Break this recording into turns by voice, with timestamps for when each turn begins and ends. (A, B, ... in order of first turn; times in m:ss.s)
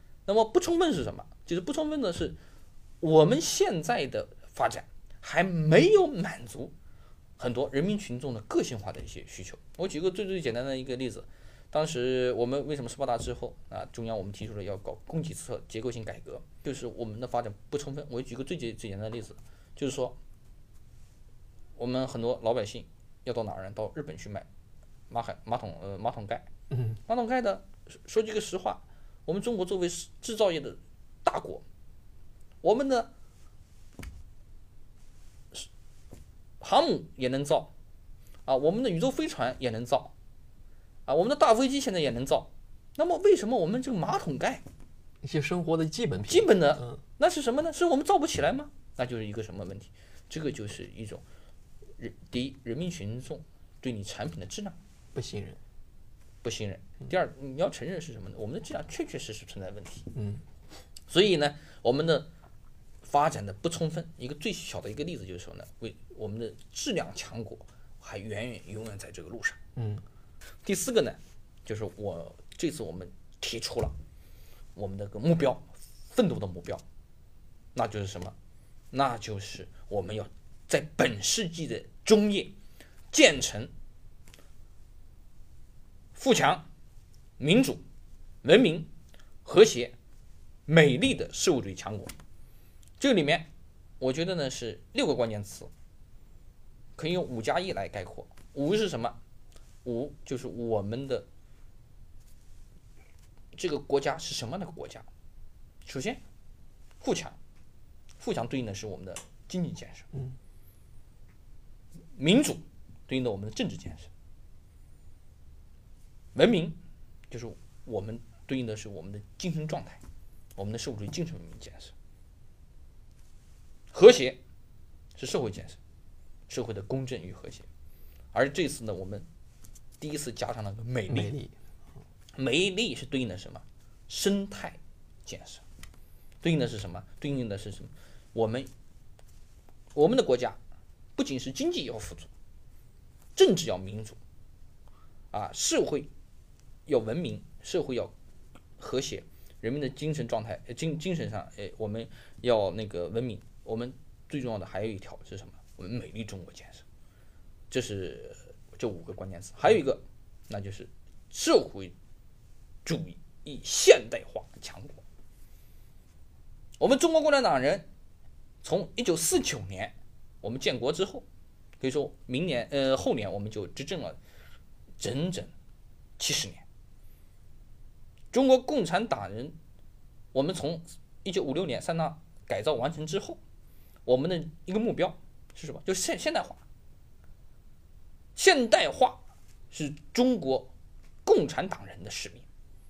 0:00.2-0:02.4 A
0:03.0-0:06.7 A
0:07.4-0:20.2 A
0:21.8-0:24.5 A
0:25.1-0:26.5 A
0:26.7-0:27.0 B
0:27.1-0:31.6 A
0:32.6-0:33.1 A
0:36.6-0:37.7 A
0:38.4-0:40.1 A
0:41.0-0:44.6 A
0:45.2-0:47.0 B
0:46.2-0:51.2 A
0:52.0-0:54.8 A
0:55.1-0:55.6 B
0:56.4-1:00.1 A
1:00.1-1:00.4 B
1:01.1-1:02.3 A
1:03.0-1:09.6 A
1:09.8-1:10.0 B
1:10.6-1:14.0 A
1:14.7-1:16.8 A
1:17.7-1:18.4 A
1:18.9-1:22.5 A
1:23.1-1:23.7 A
1:26.1-1:26.7 A
1:27.4-1:27.8 A
1:28.4-1:28.9 A
1:29.4-1:29.9 A
1:30.7-1:32.1 A
1:33.0-1:33.5 A
1:34.0-1:35.7 A
1:37.0-1:39.2 A
1:39.8-1:41.3 A
1:43.5-1:45.1 A
1:45.8-1:46.2 A
1:47.0-1:47.4 A
1:48.2-1:50.1 A
1:52.2-1:54.1 A
1:56.3-1:56.8 A
1:57.3-2:00.0 A
2:00.6-2:01.9 A
2:03.9-2:04.4 A
2:05.2-2:05.8 A
2:06.5-2:07.7 A
2:08.3-2:09.3 A
2:10.0-2:11.3 A
2:11.1-2:11.5 B
2:12.3-2:15.6 A
2:16.4-2:18.7 A
2:19.9-2:20.6 A
2:21.2-2:22.3 A
2:23.4-2:24.2 A
2:25.3-2:26.1 A
2:26.9-2:28.1 A
2:28.8-2:36.8 A
2:37.7-2:41.9 A
2:42.8-2:45.0 A
2:46.8-2:47.9 A
2:48.6-2:51.2 A
2:51.8-2:54.2 A
2:55.0-2:55.5 A
2:56.2-2:56.6 A
2:58.3-2:59.6 A
3:00.3-3:03.4 A
3:04.0-3:06.6 A
3:08.4-3:10.7 A
3:11.2-3:12.4 A